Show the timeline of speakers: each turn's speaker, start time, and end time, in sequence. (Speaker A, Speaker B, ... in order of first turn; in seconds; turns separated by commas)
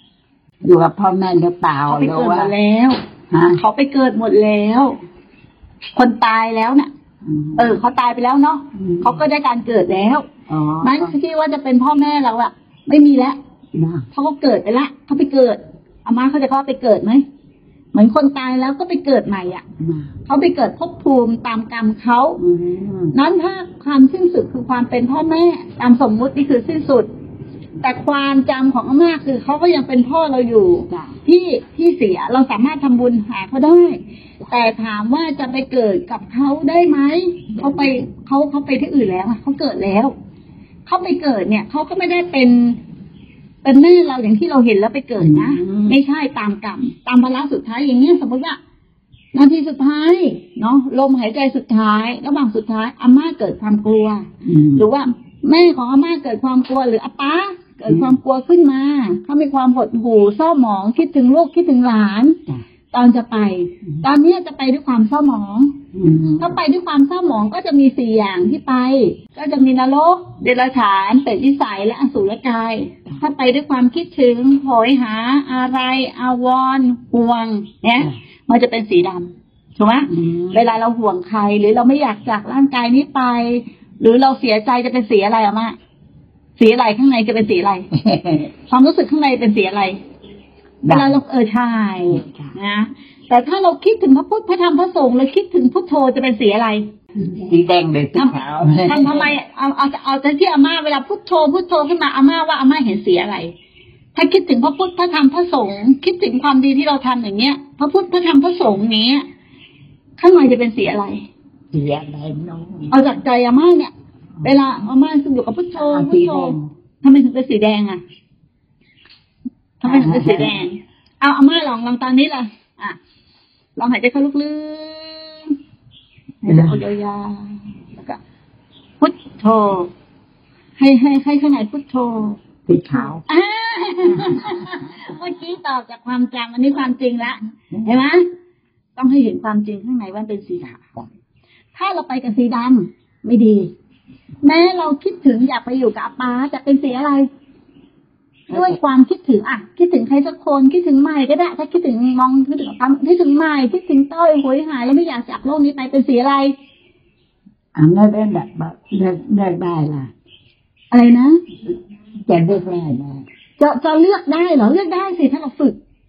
Speaker A: 0.6-2.5, Speaker B: 1.9-3.0, Speaker A: 3.3-3.6, Speaker B: 3.5-5.0, Speaker B: 5.9-6.9, Speaker A: 7.2-7.8, Speaker B: 7.6-10.3, Speaker A: 8.7-9.2, Speaker A: 10.5-11.1, Speaker B: 10.8-13.4, Speaker A: 13.7-14.1, Speaker B: 14.1-17.2, Speaker B: 17.9-19.6, Speaker A: 19.8-20.1, Speaker B: 20.3-22.4, Speaker A: 22.4-23.1, Speaker B: 23.1-27.1, Speaker B: 27.8-40.1, Speaker A: 30.9-31.2, Speaker A: 37.5-38.0, Speaker B: 40.9-42.8, Speaker B: 43.6-48.6, Speaker A: 45.2-46.0, Speaker B: 49.3-62.4, Speaker A: 54.4-54.9, Speaker A: 57.9-58.2, Speaker B: 62.9-65.8, Speaker A: 65.9-66.5, Speaker B: 66.4-85.8, Speaker A: 80.1-80.7, Speaker B: 86.6-87.9, Speaker A: 88.0-88.4, Speaker B: 88.7-90.0, Speaker A: 90.8-91.2, Speaker B: 90.9-96.9, Speaker A: 92.0-92.6, Speaker A: 97.4-99.3, Speaker B: 98.1-103.5, Speaker B: 104.1-109.3, Speaker B: 110.2-111.2, Speaker A: 111.7-113.0, Speaker B: 112.9-113.9, Speaker A: 114.4-114.8, Speaker B: 114.4-118.0, Speaker A: 115.7-116.7, Speaker B: 119.8-123.0, Speaker A: 119.8-120.6, Speaker B: 123.8-125.5, Speaker B: 126.4-128.2, Speaker A: 126.4-126.8, Speaker B: 129.0-129.9, Speaker B: 130.8-132.4, Speaker A: 132.7-133.2, Speaker B: 132.9-138.3, Speaker A: 134.1-134.8, Speaker B: 138.9-141.1, Speaker B: 141.7-143.7, Speaker B: 144.4-147.3, Speaker B: 148.5-156.6, Speaker A: 148.5-148.8, Speaker A: 157.7-160.1, Speaker B: 160.9-161.4, Speaker A: 162.2-163.2, Speaker B: 163.6-165.8